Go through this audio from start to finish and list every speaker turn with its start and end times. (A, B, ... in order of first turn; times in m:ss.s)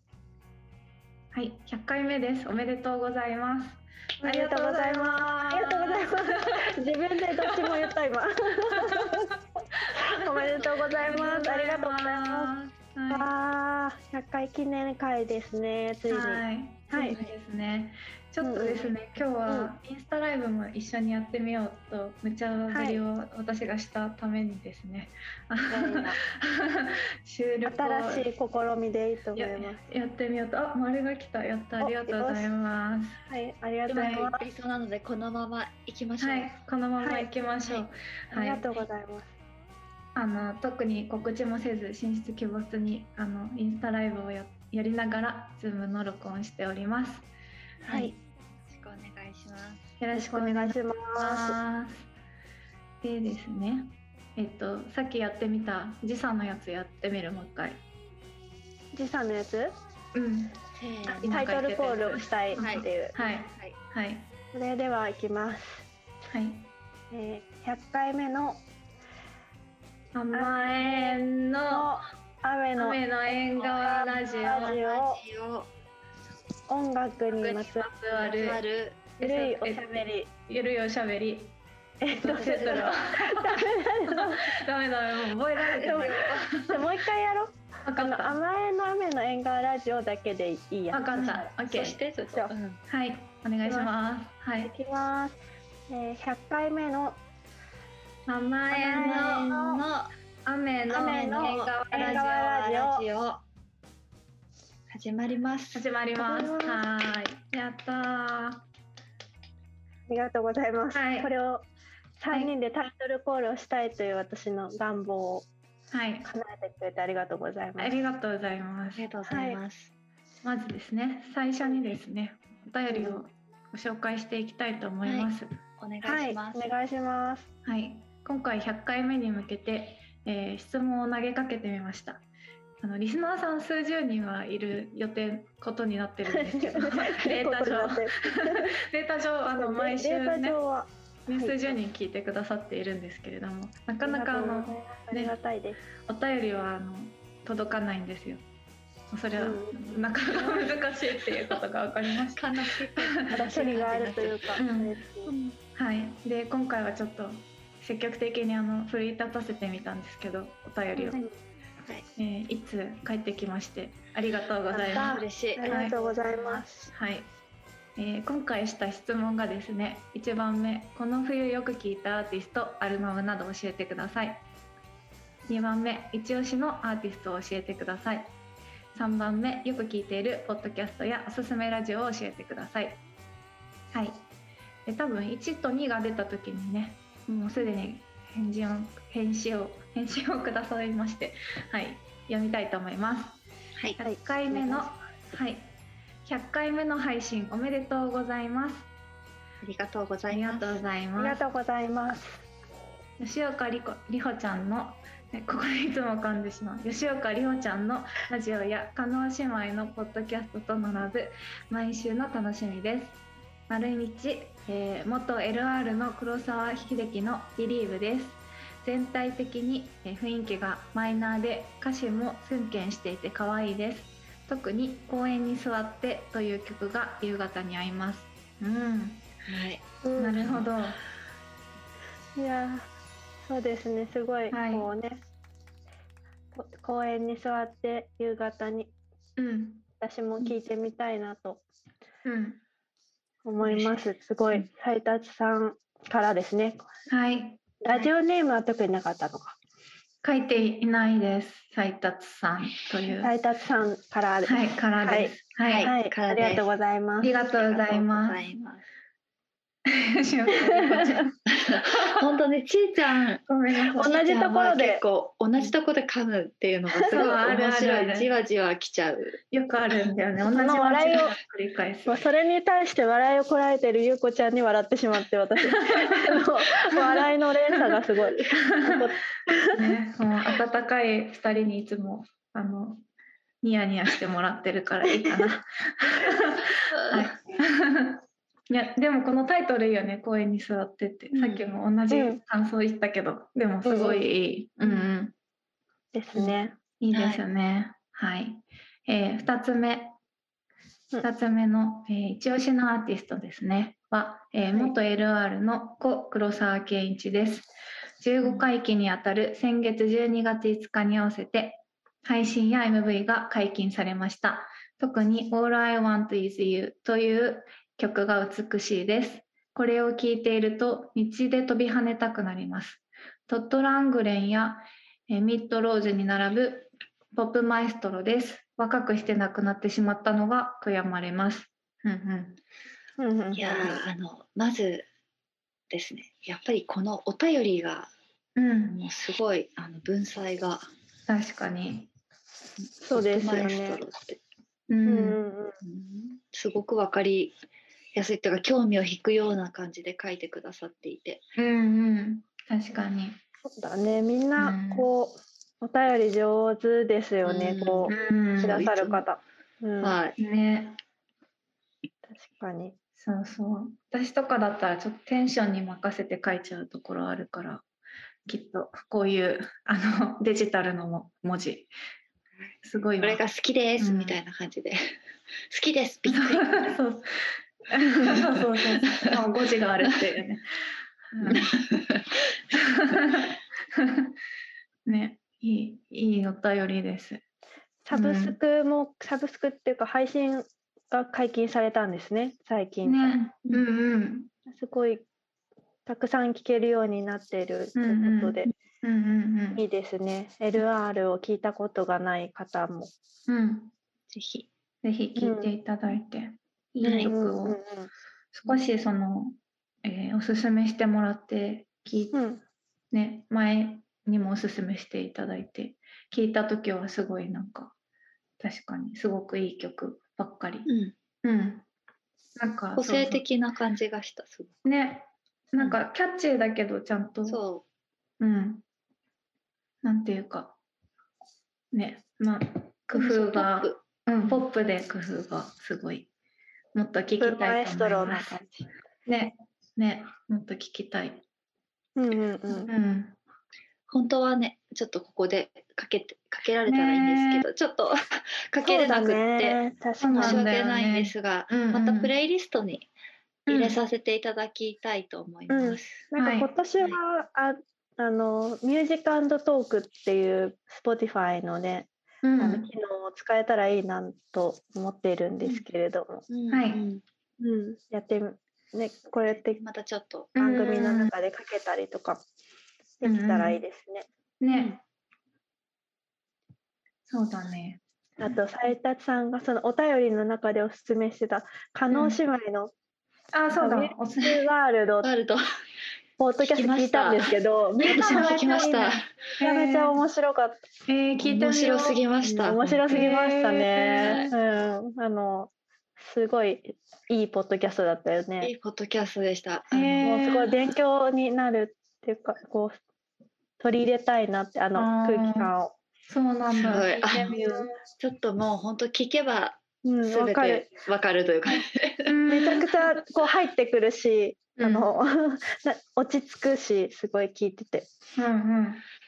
0:01.3-0:06.6 A
0:04.2-0:09.3 B
0:07.5-0:07.7 A
0:08.7-0:13.3 A
0:09.9-0:12.5 B
0:13.1-0:17.2 B
0:16.1-0:28.3 A
0:18.4-0:18.9 B
0:19.5-0:19.7 B
0:22.7-0:23.0 B
0:25.7-0:26.2 B
0:27.7-0:29.8 B
0:29.4-0:33.2 A
0:31.8-0:32.5 B
0:33.3-0:34.4 B
0:33.9-0:34.3 A
0:33.9-0:36.6 C
0:36.2-0:38.8 A
0:37.0-0:37.3 B
0:38.3-0:39.3 B
0:40.2-0:47.3 A
0:47.8-0:49.8 C
0:47.9-0:48.1 B
0:50.0-0:52.1 A
0:50.1-0:51.6 B
0:53.0-0:57.8 A
0:58.9-0:59.8 B
1:00.1-1:00.6 A
1:00.8-1:01.4 C
1:01.1-1:03.1 B
1:01.2-1:04.3 A
1:02.6-1:03.8 C
1:04.5-1:05.9 B
1:06.3-1:06.7 A
1:07.1-1:08.6 B
1:10.2-1:11.9 A
1:10.3-1:15.2 B
1:12.8-1:14.8 A
1:13.9-1:15.7 C
1:16.7-1:17.9 B
1:17.3-1:19.1 C
1:17.8-1:18.6 A
1:19.2-1:19.8 A
1:19.2-1:20.3 B
1:20.5-1:21.5 A
1:22.0-1:24.6 B
1:22.2-1:26.8 A
1:22.4-1:22.8 C
1:25.8-1:26.5 C
1:25.8-1:31.5 B
1:27.8-1:28.4 A
1:30.9-1:32.0 A
1:31.7-1:32.8 C
1:32.3-1:32.5 B
1:32.9-1:34.7 A
1:33.6-1:33.9 B
1:34.6-1:35.4 B
1:35.9-1:37.2 B
1:38.3-1:39.6 A
1:38.7-1:39.8 B
1:38.9-1:40.1 C
1:40.4-1:42.8 A
1:40.9-1:43.4 C
1:40.9-1:43.1 B
1:44.9-1:45.9 C
1:45.7-1:48.6 A
1:46.2-1:46.8 B
1:50.1-1:51.7 B
1:50.9-1:51.3 A
1:52.2-1:55.5 B
1:55.9-1:56.3 A
1:56.2-1:57.9 B
1:57.8-1:59.0 A
1:59.0-1:59.9 C
1:59.3-1:59.6 B
2:00.4-2:05.5 A
2:02.9-2:03.2 B
2:05.0-2:06.6 C
2:06.0-2:07.5 B
2:07.6-2:12.2 A
2:12.8-2:20.6 A
2:16.3-2:18.7 B
2:19.4-2:21.7 B
2:21.3-2:25.4 A
2:24.0-2:25.8 B
2:26.0-2:28.4 A
2:29.1-2:33.6 A
2:29.4-2:30.8 B
2:32.4-2:34.6 C
2:33.3-2:35.3 B
2:34.6-2:35.0 A
2:35.3-2:35.6 C
2:35.7-2:41.2 A
2:41.0-2:41.3 B
2:42.2-2:47.3 A
2:44.7-2:46.9 B
2:44.9-2:45.9 C
2:48.0-2:54.4 A
2:55.5-2:58.3 A
2:58.9-3:03.0 A
3:03.9-3:04.2 A
3:04.9-3:13.4 A
3:14.0-3:15.7 A
3:14.0-3:14.9 B
3:16.2-3:18.9 A
3:19.6-3:20.8 C
3:20.3-3:21.4 A
3:21.2-3:22.4 B
3:23.2-3:49.3 A
3:49.5-3:49.8 C
3:50.0-3:50.6 B
3:50.2-3:51.0 A
3:52.4-3:52.9 B
3:53.4-3:55.2 B
3:54.5-3:54.9 A
3:56.5-3:58.9 B
3:59.4-3:59.8 A
4:00.0-4:01.6 B
4:02.2-4:02.6 A
4:03.4-4:06.8 B
4:03.6-4:04.0 C
4:07.1-4:08.0 A
4:07.8-4:09.6 B
4:10.2-4:13.3 A
4:13.2-4:17.4 B
4:14.5-4:15.9 A
4:15.7-4:16.7 C
4:17.2-4:18.4 A
4:17.6-4:18.8 C
4:19.9-4:22.2 A
4:20.6-4:21.2 B
4:21.5-4:23.4 C
4:23.5-4:24.2 A
4:23.9-4:25.0 B
4:24.0-4:29.4 C
4:27.1-4:28.3 A
4:29.5-4:32.2 A
4:30.4-4:31.3 B
4:32.1-4:39.9 B
4:35.7-4:37.1 A
4:38.5-4:39.0 A
4:39.7-4:43.0 A
4:43.6-4:55.3 A
4:47.1-4:47.3 C
4:51.3-4:51.6 C
4:52.1-4:52.4 B
4:53.8-4:54.2 B
4:56.1-4:56.8 B
4:57.0-5:00.2 A
4:57.1-4:57.4 C
5:01.2-5:07.7 A
5:08.2-5:32.6 A
5:33.2-5:34.0 B
5:33.6-5:35.1 C
5:35.9-5:38.1 C
5:38.6-5:39.0 A
5:38.9-5:40.9 C
5:41.3-5:42.1 A
5:42.8-5:44.4 C
5:43.0-5:44.0 B
5:44.9-5:45.4 A
5:45.1-5:45.8 B
5:45.8-5:47.6 C
5:48.2-5:51.4 C
5:51.6-5:53.4 A
5:53.6-6:00.2 B
5:54.6-5:55.1 A
5:57.4-5:59.2 C
5:58.1-5:58.9 A
6:00.0-6:00.4 C
6:00.4-6:01.0 A
6:02.3-6:03.0 B
6:03.2-6:07.8 A
6:08.5-6:11.9 A
6:12.8-6:13.4 A
6:13.2-6:15.2 C
6:14.0-6:14.4 A
6:15.7-6:16.9 C
6:16.3-6:20.7 A
6:21.3-6:21.7 A
6:21.5-6:22.6 C
6:22.7-6:24.3 A
6:25.1-6:27.4 A
6:28.0-6:33.4 B
6:28.1-6:28.6 A
6:33.0-6:34.5 A
6:34.7-6:35.3 B
6:36.0-6:38.7 B
6:38.0-6:39.8 A
6:39.8-6:43.1 B
6:43.5-6:43.9 A
6:44.3-6:44.7 C
6:45.0-6:47.8 A
6:45.4-6:45.7 B
6:47.0-6:47.3 C
6:47.1-6:48.1 B
6:48.5-6:52.4 A
6:52.3-6:52.6 B
6:53.1-6:57.9 A
6:58.6-7:00.9 A
7:00.9-7:01.2 C
7:01.4-7:01.8 A
7:02.6-7:03.4 A
7:03.0-7:04.7 C
7:04.8-7:07.6 A
7:07.5-7:07.8 C
7:08.4-7:08.8 A
7:10.0-7:10.8 A
7:11.9-7:16.3 A
7:13.1-7:14.0 C
7:16.9-7:18.7 A
7:17.4-7:18.7 B
7:19.3-7:21.4 A
7:22.2-7:22.9 B
7:22.7-7:23.4 A
7:24.1-7:29.8 C
7:26.9-7:27.7 A
7:28.8-7:30.7 B
7:30.2-7:32.3 A
7:30.4-7:33.1 C
7:33.7-7:34.0 A
7:33.7-7:36.3 C
7:35.7-7:46.4 B
7:36.4-7:36.7 A
7:42.4-7:42.9 A
7:46.5-7:47.2 C
7:46.7-7:47.0 A
7:47.6-7:49.8 B
7:49.8-7:50.5 C
7:50.6-7:51.3 A
7:50.6-7:52.4 B
7:53.2-7:54.3 B
7:53.2-7:53.8 A
7:54.6-7:55.0 A
7:54.7-7:55.0 C
7:57.3-7:58.0 A
7:58.4-8:02.9 B
8:02.1-8:02.4 A
8:03.5-8:04.7 A
8:03.8-8:05.3 B
8:05.2-8:05.6 C
8:06.4-8:10.8 B
8:06.6-8:09.3 C
8:08.0-8:08.9 A
8:09.6-8:10.2 A
8:11.1-8:12.2 A
8:11.4-8:13.3 C
8:12.4-8:18.7 B
8:13.1-8:14.5 A
8:14.2-8:14.5 C
8:18.6-8:20.3 C
8:19.9-8:20.8 A
8:20.2-8:23.0 B
8:23.8-8:26.0 B
8:25.0-8:25.7 A
8:26.3-8:28.0 A
8:26.8-8:27.6 C
8:27.3-8:27.9 B
8:28.2-8:32.4 C
8:30.0-8:30.9 B
8:32.3-8:32.9 A
8:32.5-8:38.1 B
8:34.8-8:35.1 A
8:38.4-8:39.0 A